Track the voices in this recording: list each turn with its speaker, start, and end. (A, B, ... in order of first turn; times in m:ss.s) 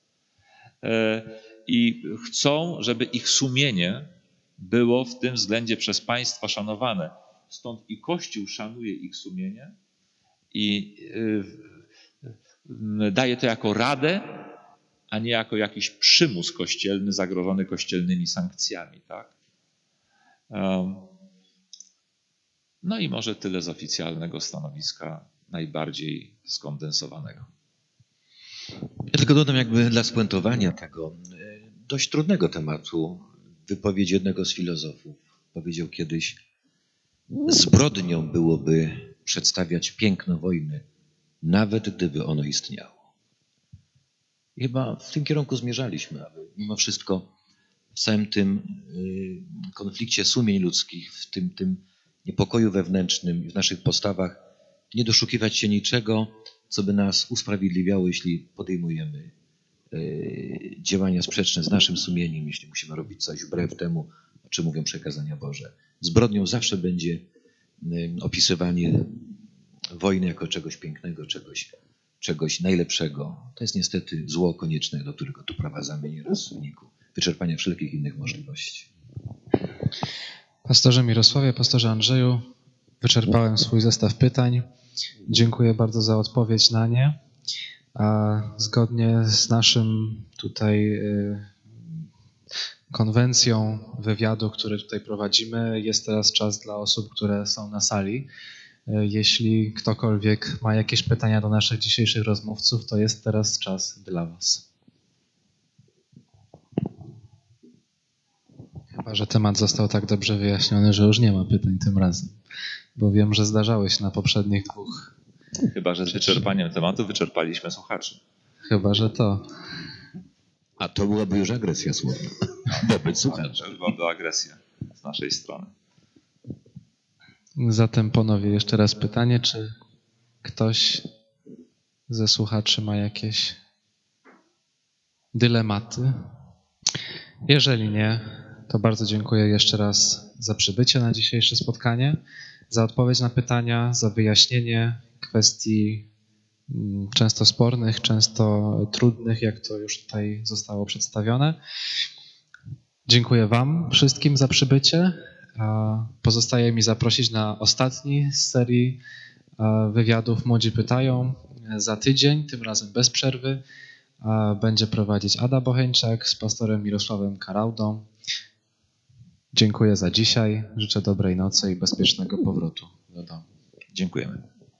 0:00.8-0:09.7 A
0:10.5-0:11.7 A
0:12.6-0:14.5 A
0:15.1-0:19.3 A
0:20.5-0:21.1 A
0:22.8-0:27.5 A
0:29.1-0:36.4 B
0:37.4-0:40.8 B
0:41.4-0:43.0 B
0:44.6-0:47.3 B
0:47.9-0:59.3 B
0:59.9-1:07.2 B
1:07.8-1:09.2 B
1:09.9-1:18.9 B
1:20.6-1:22.5 C
1:23.0-1:24.6 C
1:25.3-1:27.2 C
1:27.9-1:31.6 C
1:32.9-1:38.3 C
1:38.9-1:44.6 C
1:49.0-1:52.4 C
1:53.0-1:55.1 C
1:55.7-1:58.2 A
1:58.6-1:59.4 C
2:00.8-2:03.6 B
2:02.7-2:05.7 A
2:07.6-2:09.7 C
2:10.4-2:11.0 C
2:12.1-2:13.6 C
2:15.3-2:16.1 C
2:17.5-2:22.2 C
2:22.7-2:26.0 C
2:26.7-2:31.6 C
2:33.0-2:39.0 C
2:39.6-2:43.6 C
2:44.2-2:48.1 C
2:49.5-2:53.4 C
2:53.9-2:54.4 A